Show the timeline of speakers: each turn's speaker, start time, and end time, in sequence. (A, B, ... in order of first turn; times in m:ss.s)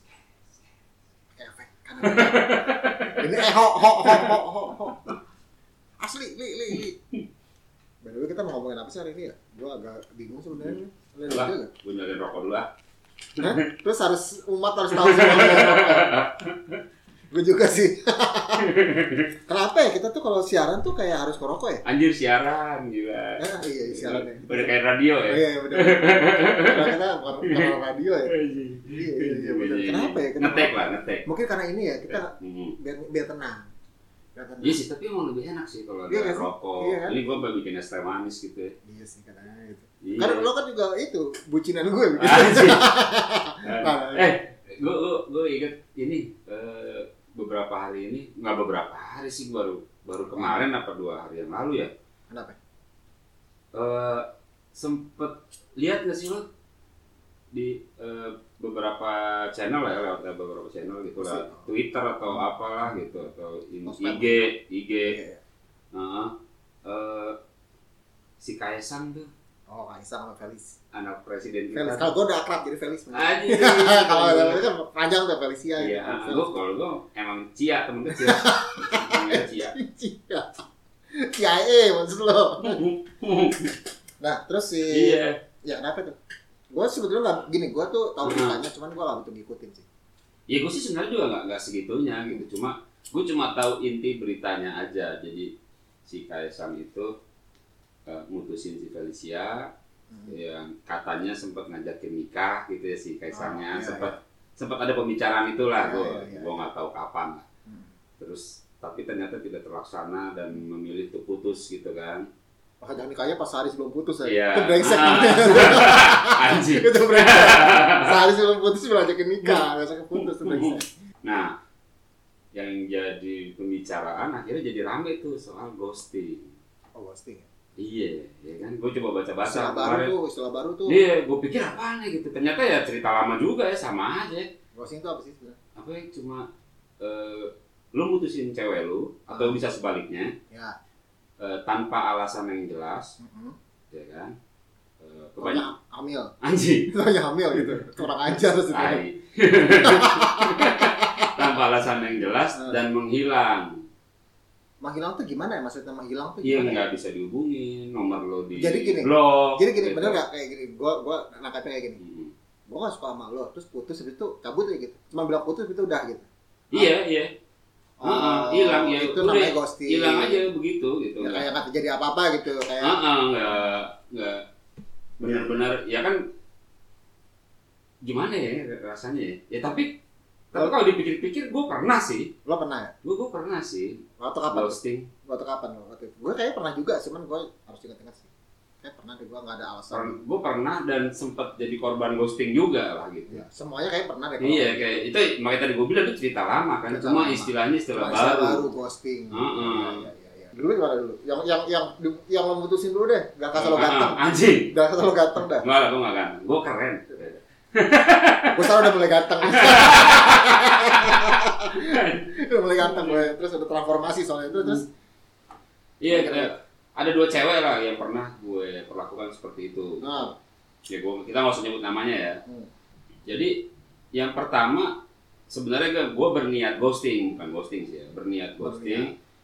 0:01.3-0:05.1 A
0:02.0-0:03.3 B
0:04.0-0:04.4 B
0:06.0-0:07.0 A
0:08.0-0:11.7 A
0:11.3-0:12.7 B
0:13.4-0:13.7 B
0:13.4-0:16.3 A
0:14.9-0:16.8 B
0:17.3-0:18.7 A
0:18.6-0:19.3 B
0:19.5-0:21.8 A
0:21.8-0:27.7 B
0:23.4-0:24.7 A
0:25.3-0:33.7 A
0:28.3-0:31.3 B
0:32.1-0:32.8 B
0:34.4-0:34.8 A
0:34.6-0:38.7 B
0:36.1-0:37.4 A
0:38.8-0:44.3 A
0:40.0-0:40.5 B
0:42.2-0:42.8 B
0:43.6-0:51.9 B
0:50.3-0:50.7 A
0:52.3-0:52.6 A
0:53.7-0:56.5 B
0:57.5-1:05.2 B
1:01.2-1:01.6 A
1:03.9-1:04.4 A
1:05.1-1:05.4 A
1:05.9-1:06.3 B
1:06.8-1:07.4 B
1:08.4-1:09.3 B
1:09.7-1:10.8 A
1:10.9-1:12.1 B
1:11.7-1:16.6 A
1:13.1-1:14.7 B
1:15.8-1:19.8 B
1:18.1-1:20.5 A
1:21.1-1:22.8 A
1:22.6-1:23.8 B
1:24.2-1:26.2 A
1:24.9-1:25.4 B
1:26.7-1:29.9 A
1:28.2-1:28.6 B
1:30.5-1:35.5 B
1:36.1-1:37.1 B
1:38.1-1:39.7 B
1:40.1-1:40.4 A
1:40.3-1:47.5 B
1:43.3-1:44.1 A
1:45.8-1:46.7 A
1:48.2-1:52.3 B
1:52.8-2:00.9 A
1:54.2-1:58.2 B
1:59.4-2:01.6 B
2:02.5-2:06.5 B
2:07.0-2:07.5 A
2:07.8-2:10.1 B
2:09.4-2:11.0 A
2:10.9-2:14.5 B
2:14.8-2:15.6 A
2:15.8-2:16.5 B
2:17.0-2:20.3 B
2:19.3-2:19.6 A
2:20.5-2:20.8 A
2:21.4-2:23.2 B
2:23.2-2:23.6 A
2:23.9-2:24.4 B
2:25.0-2:25.7 B
2:25.4-2:26.3 A
2:26.4-2:26.9 B
2:26.9-2:29.0 A
2:28.7-2:33.8 B
2:29.8-2:31.5 A
2:34.8-2:36.8 A
2:36.4-2:40.2 B
2:38.6-2:42.0 A
2:42.0-2:42.3 B
2:42.7-2:46.9 A
2:46.7-2:47.3 B
2:48.0-2:50.5 A
2:48.0-2:51.5 B
2:51.2-2:53.0 A
2:52.8-2:54.4 B
2:55.2-2:56.2 B
2:55.2-2:55.6 A
2:58.0-3:00.0 B
3:00.5-3:02.3 B
3:02.4-3:02.9 A
3:03.0-3:05.1 B
3:04.2-3:08.3 A
3:08.8-3:10.2 A
3:09.9-3:13.4 B
3:13.3-3:15.1 A
3:14.4-3:18.6 B
3:16.9-3:24.2 A
3:19.3-3:20.1 B
3:23.6-3:24.7 B
3:24.7-3:25.6 A
3:25.6-3:33.3 B
3:28.5-3:34.8 A
3:34.5-3:34.9 B
3:36.0-3:40.2 B
3:36.1-3:36.5 A
3:40.0-3:40.3 A
3:40.9-3:42.4 B
3:43.3-3:43.6 B
3:44.1-3:45.0 B
3:45.5-3:49.1 B
3:48.6-3:49.1 A